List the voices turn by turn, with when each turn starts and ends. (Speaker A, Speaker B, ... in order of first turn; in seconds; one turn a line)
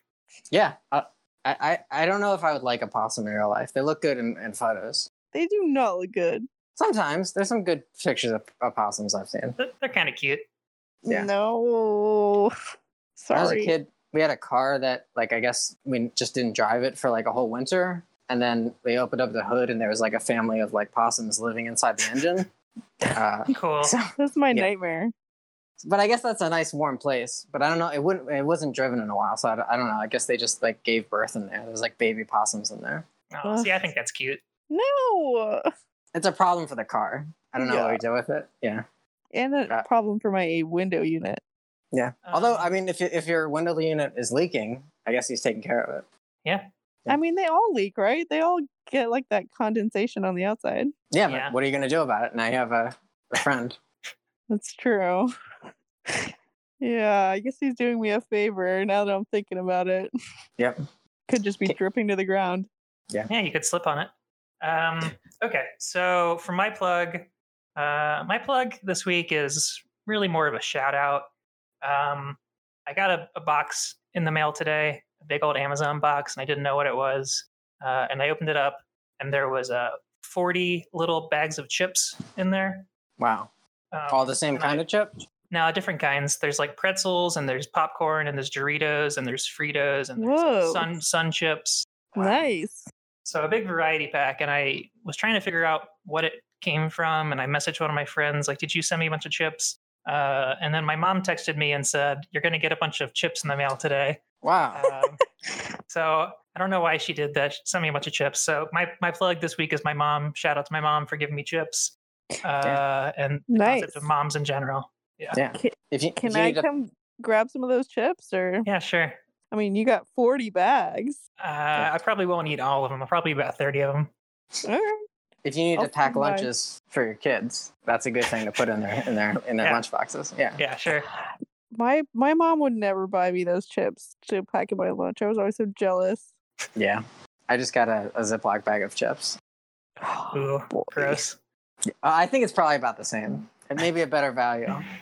Speaker A: 0.5-5.1
Speaker B: 5.3-6.5
Speaker A: 6.8-9.6
Speaker C: 9.6-10.4
Speaker B: 11.0-12.5
Speaker B: 13.2-13.7
Speaker A: 13.3-22.5
Speaker A: 23.1-24.7
Speaker C: 23.5-23.9
Speaker B: 24.1-25.1
Speaker A: 25.8-33.0
Speaker C: 33.3-34.4
Speaker B: 33.4-33.8
Speaker B: 34.7-35.7
Speaker A: 36.1-38.8
Speaker B: 37.6-38.0
Speaker B: 39.3-41.4
Speaker A: 41.9-46.0
Speaker C: 42.2-42.7
Speaker B: 47.1-50.9
Speaker A: 51.1-53.8
Speaker C: 51.3-51.5
Speaker B: 54.5-55.3
Speaker B: 56.1-60.1
Speaker B: 61.3-62.7
Speaker C: 63.3-71.3
Speaker C: 71.8-82.9
Speaker A: 83.2-83.5
Speaker C: 83.9-84.8
Speaker A: 84.1-85.1
Speaker C: 85.5-91.9
Speaker B: 90.2-90.9
Speaker B: 92.1-92.9
Speaker A: 92.2-92.4
Speaker C: 93.2-104.2
Speaker A: 104.4-104.8
Speaker C: 104.7-105.2
Speaker C: 105.9-115.4
Speaker B: 113.5-114.1
Speaker A: 115.3-116.7
Speaker B: 115.5-118.7
Speaker C: 118.6-119.2
Speaker B: 119.5-121.2
Speaker C: 121.4-124.1
Speaker B: 124.6-125.0
Speaker A: 125.4-130.6
Speaker B: 125.8-126.5
Speaker C: 130.6-131.1
Speaker B: 131.7-136.3
Speaker A: 136.8-139.4
Speaker B: 140.0-141.2
Speaker C: 140.3-141.4
Speaker A: 142.0-144.9